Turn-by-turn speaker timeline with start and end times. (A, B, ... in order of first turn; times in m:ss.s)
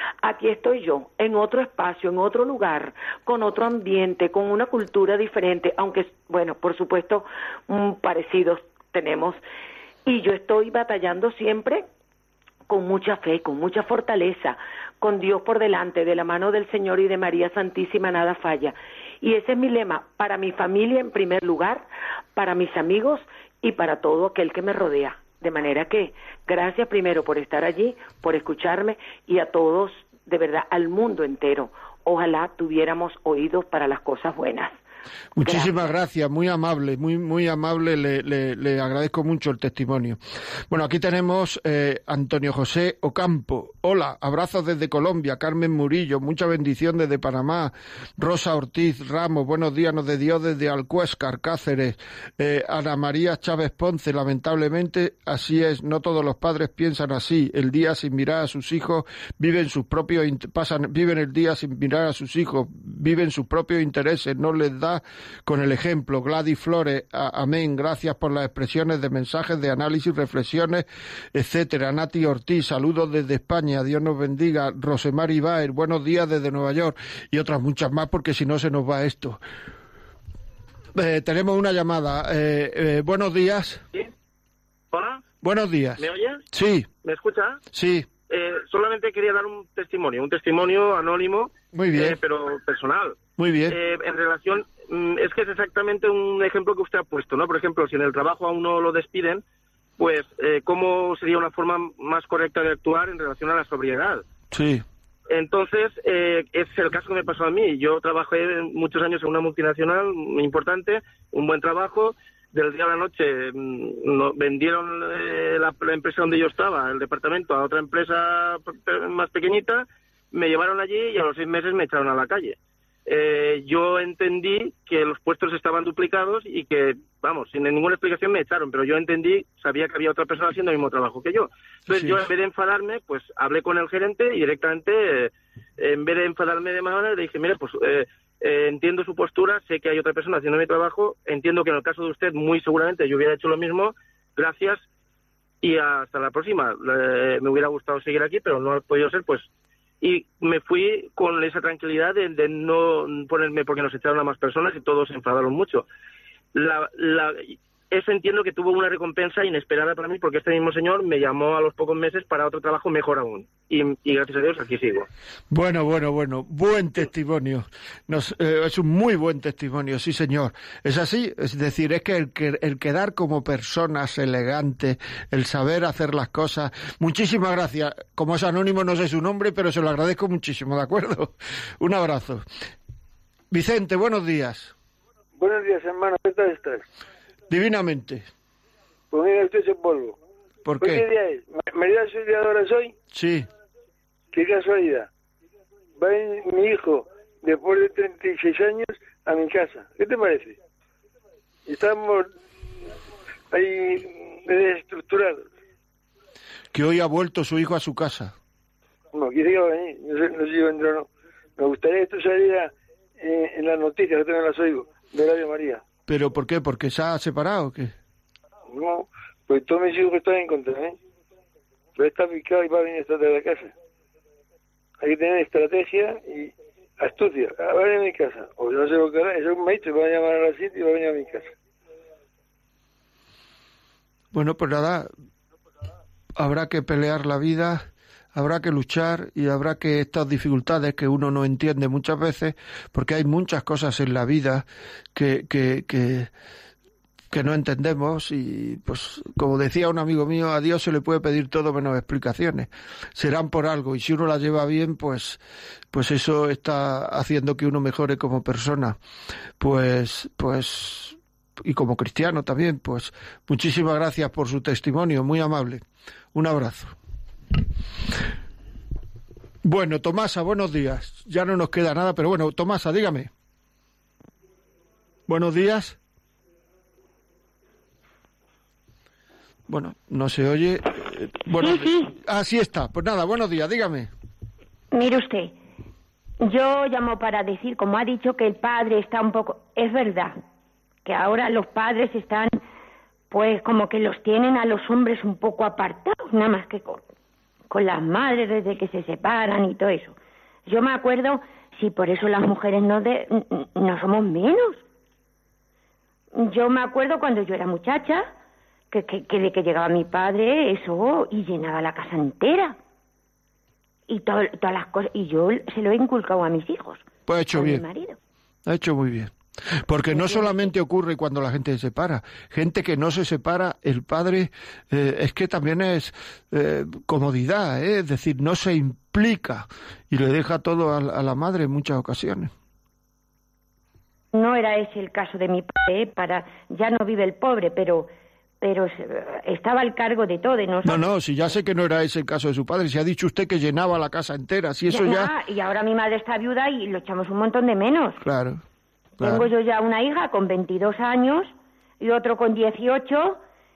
0:00.2-0:09.4 A
0:10.0-0:11.9 A
0:12.7-0:34.7 A
0:35.4-0:40.2 B
0:35.4-0:35.9 A
0:40.7-1:19.4 B
1:20.9-1:23.8 B
1:24.9-1:25.2 C
1:25.4-1:26.9 B
1:26.0-1:26.4 C
1:27.0-1:27.6 C
1:27.7-1:28.1 B
1:28.3-1:39.4 C
1:31.7-1:32.2 B
1:33.4-1:33.8 B
1:40.0-1:44.2 C
1:44.5-1:44.8 B
1:45.3-2:24.8 C
2:11.9-2:12.2 B
2:25.6-2:29.5 C
2:30.0-2:35.9 C
2:36.5-2:45.1 C
2:45.5-3:02.4 B
3:03.5-3:04.7 B
3:05.4-3:06.8 D
3:07.5-3:08.2 B
3:09.1-3:10.2 D
3:10.6-3:11.0 B
3:10.8-3:12.9 D
3:13.1-3:13.5 B
3:14.3-3:15.1 D
3:16.0-3:20.6 D
3:21.6-3:22.3 D
3:23.5-3:25.4 D
3:26.7-3:28.3 B
3:29.1-3:35.8 D
3:36.1-3:37.9 B
3:38.7-3:40.9 D
3:42.0-3:43.7 D
3:45.0-3:51.5 D
3:54.3-3:55.1 B
3:56.4-4:06.3 B
4:07.3-4:15.4 B
4:15.9-4:19.0 B
4:19.6-4:25.8 B
4:26.3-4:26.9 B
4:29.6-4:33.3 B
4:35.3-4:36.0 B
4:39.7-4:44.1 B
4:41.5-4:42.2 E
4:44.9-4:45.6 E
4:46.4-4:50.4 E
4:51.0-4:52.6 E
4:53.3-4:57.0 E
4:57.7-5:04.8 E
5:06.3-5:08.3 E
5:08.9-5:12.8 E
5:14.1-5:18.2 E
5:17.3-5:17.8 B
5:18.6-5:19.3 B
5:19.8-5:32.5 B
5:20.1-5:20.7 E
5:34.3-5:38.1 E
5:38.6-5:41.0 E
5:40.8-5:45.3 B
5:44.9-5:48.2 E
5:48.2-5:48.6 B
5:49.2-5:53.4 E
5:49.2-5:49.5 B